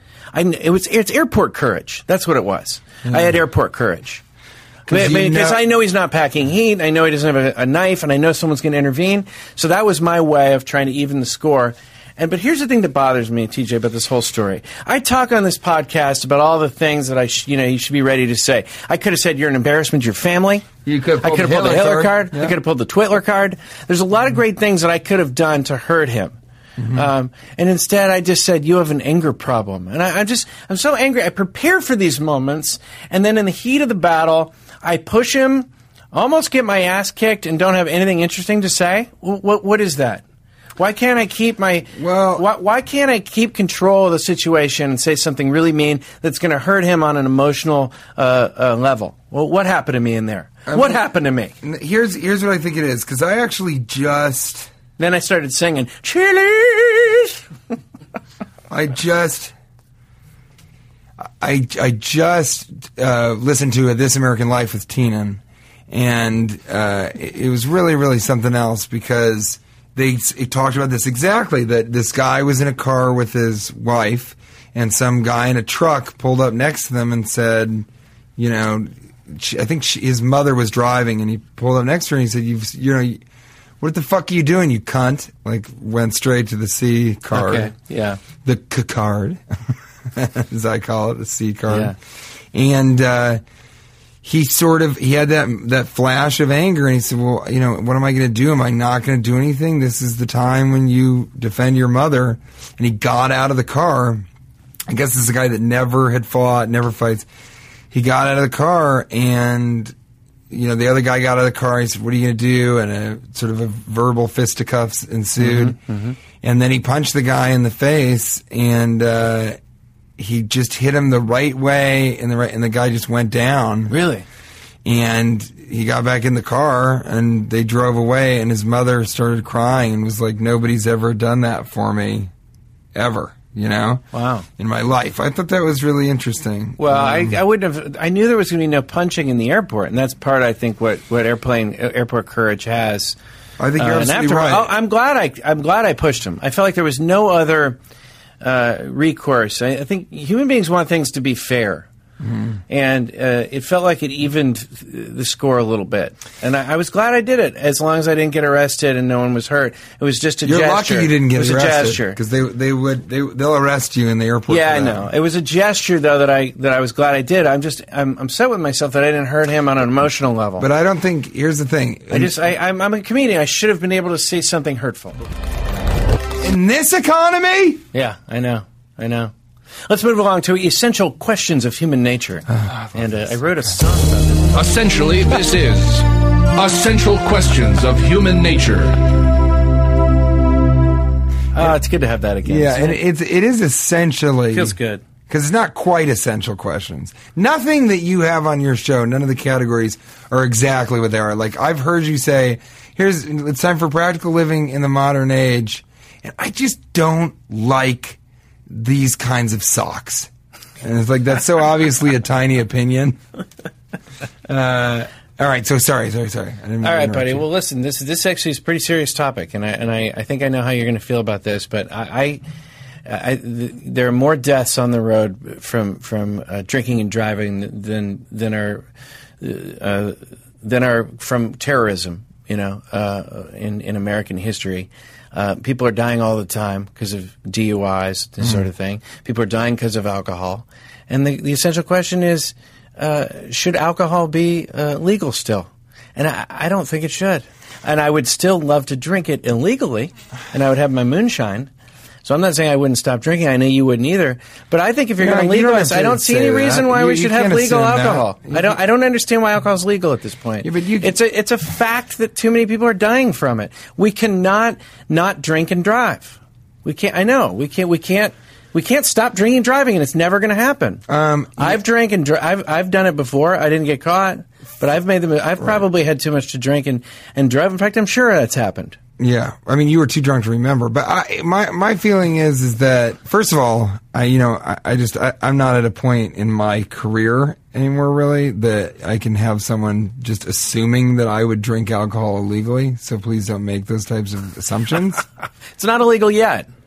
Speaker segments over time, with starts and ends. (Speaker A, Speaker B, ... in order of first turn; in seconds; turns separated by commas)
Speaker A: 0.3-4.2, Speaker B: 4.9-5.6, Speaker A: 4.9-20.7, Speaker B: 20.8-22.6, Speaker A: 21.2-26.4, Speaker B: 26.8-27.1, Speaker A: 26.9-40.2, Speaker A: 40.8-51.5, Speaker B: 42.0-42.5, Speaker B: 50.7-51.0, Speaker B: 51.6-54.7, Speaker A: 55.0-57.4, Speaker B: 58.7-59.5, Speaker B: 61.4-77.9, Speaker B: 78.4-83.2, Speaker B: 83.8-87.7, Speaker A: 87.3-88.2, Speaker B: 88.4-89.4, Speaker B: 90.1-92.0, Speaker A: 91.7-91.9, Speaker B: 92.5-93.4, Speaker B: 94.2-104.2, Speaker B: 104.9-107.3, Speaker B: 107.9-110.0, Speaker B: 110.5-115.8, Speaker A: 115.4-116.2, Speaker B: 116.3-119.6, Speaker B: 120.2-123.9, Speaker A: 123.9-124.3, Speaker B: 124.8-132.3, Speaker B: 132.9-134.1, Speaker A: 134.1-134.4, Speaker B: 134.6-137.4, Speaker A: 136.8-143.2, Speaker B: 143.6-144.7, Speaker A: 143.8-147.8, Speaker A: 148.4-151.9, Speaker B: 152.2-152.6, Speaker A: 152.7-162.2, Speaker B: 160.4-165.1, Speaker A: 164.5-170.7, Speaker B: 170.6-172.4, Speaker A: 172.1-175.2, Speaker B: 176.4-177.8, Speaker A: 177.9-179.3, Speaker A: 179.9-184.5, Speaker B: 182.5-183.3, Speaker C: 184.5-189.0, Speaker A: 191.5-193.0, Speaker B: 192.4-194.7, Speaker A: 194.5-195.0, Speaker B: 195.3-210.3, Speaker B: 210.8-213.2, Speaker B: 214.5-217.4, Speaker A: 216.8-222.4, Speaker A: 223.1-228.9, Speaker A: 229.4-251.7, Speaker A: 252.2-271.0, Speaker B: 255.2-258.8, Speaker B: 260.6-261.2, Speaker B: 271.1-271.8, Speaker A: 271.6-279.0, Speaker B: 279.2-295.2, Speaker A: 295.8-296.7